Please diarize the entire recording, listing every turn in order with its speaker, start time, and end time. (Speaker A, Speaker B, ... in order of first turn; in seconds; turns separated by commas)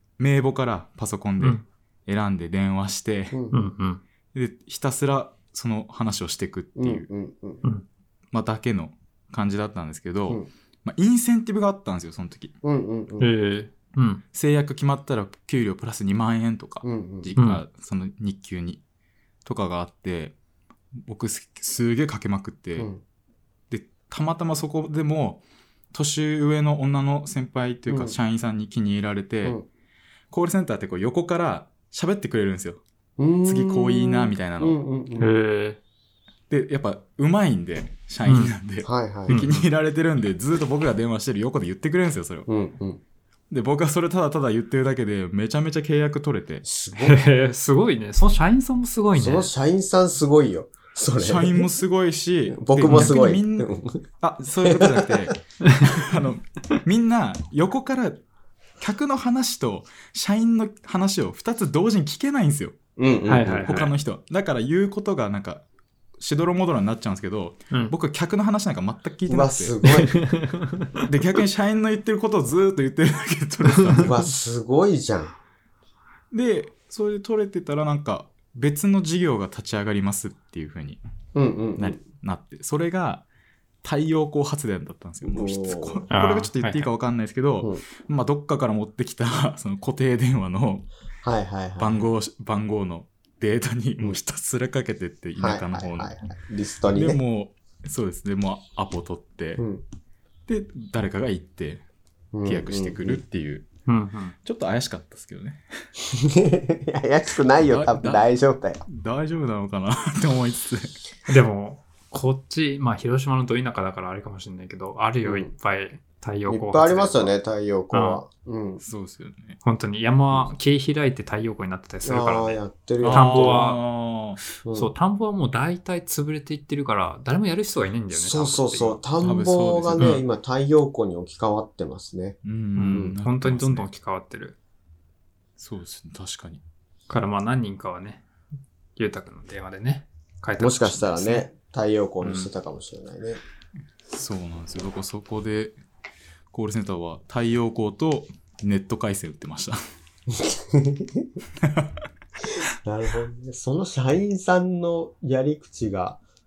Speaker A: 0.2-3.4, Speaker B: 3.3-3.6, Speaker C: 3.5-4.0, Speaker A: 4.3-7.1, Speaker B: 6.8-7.6, Speaker A: 8.3-12.5, Speaker B: 12.6-13.3, Speaker C: 13.2-14.2, Speaker A: 14.3-18.8, Speaker B: 16.8-17.3, Speaker C: 17.4-17.6, Speaker A: 19.4-20.4, Speaker A: 21.0-22.9, Speaker B: 22.8-23.0, Speaker A: 23.7-29.6, Speaker B: 27.9-28.1, Speaker A: 30.3-32.8, Speaker B: 33.2-35.3, Speaker A: 33.4-34.8, Speaker C: 35.2-35.8, Speaker A: 36.5-42.5, Speaker C: 38.2-38.5, Speaker B: 38.8-39.4, Speaker C: 39.3-39.7, Speaker B: 42.5-43.0, Speaker A: 43.5-46.6, Speaker B: 46.6-47.2, Speaker C: 47.0-49.5, Speaker B: 49.1-51.7, Speaker A: 51.2-58.2, Speaker B: 52.5-54.0, Speaker C: 52.9-53.1, Speaker B: 54.6-55.3, Speaker A: 58.8-62.8, Speaker B: 63.0-63.8, Speaker C: 63.3-63.9, Speaker A: 63.5-65.6, Speaker A: 66.2-69.8, Speaker B: 69.3-70.1, Speaker C: 69.8-71.0, Speaker A: 71.0-74.2, Speaker B: 74.0-75.3, Speaker A: 76.3-81.0, Speaker B: 81.3-82.0, Speaker A: 81.8-83.2, Speaker A: 83.8-90.9, Speaker B: 85.2-86.0, Speaker C: 86.1-86.9, Speaker B: 91.2-92.0, Speaker A: 91.8-96.2, Speaker B: 95.4-97.2, Speaker A: 96.9-99.6, Speaker B: 99.6-99.8, Speaker A: 100.5-101.8, Speaker B: 102.3-103.2, Speaker A: 102.4-103.7, Speaker C: 103.9-104.3, Speaker A: 104.4-105.6, Speaker B: 106.1-108.8, Speaker A: 107.6-108.3, Speaker A: 108.8-111.0, Speaker C: 111.3-117.3, Speaker B: 115.2-115.5, Speaker B: 116.5-118.8, Speaker C: 117.9-118.2, Speaker A: 118.8-119.6, Speaker C: 119.6-123.8, Speaker B: 122.0-123.6, Speaker A: 123.0-124.4, Speaker C: 124.5-129.0, Speaker B: 124.7-124.9, Speaker B: 128.1-132.4, Speaker A: 129.2-130.2, Speaker A: 132.4-133.9, Speaker C: 132.7-134.6, Speaker A: 135.6-136.6, Speaker C: 137.1-138.2, Speaker C: 138.9-141.4, Speaker B: 140.6-143.4, Speaker C: 142.2-142.5, Speaker A: 144.1-145.8, Speaker A: 146.5-149.8, Speaker B: 150.3-151.3, Speaker A: 151.6-151.9, Speaker B: 152.8-156.2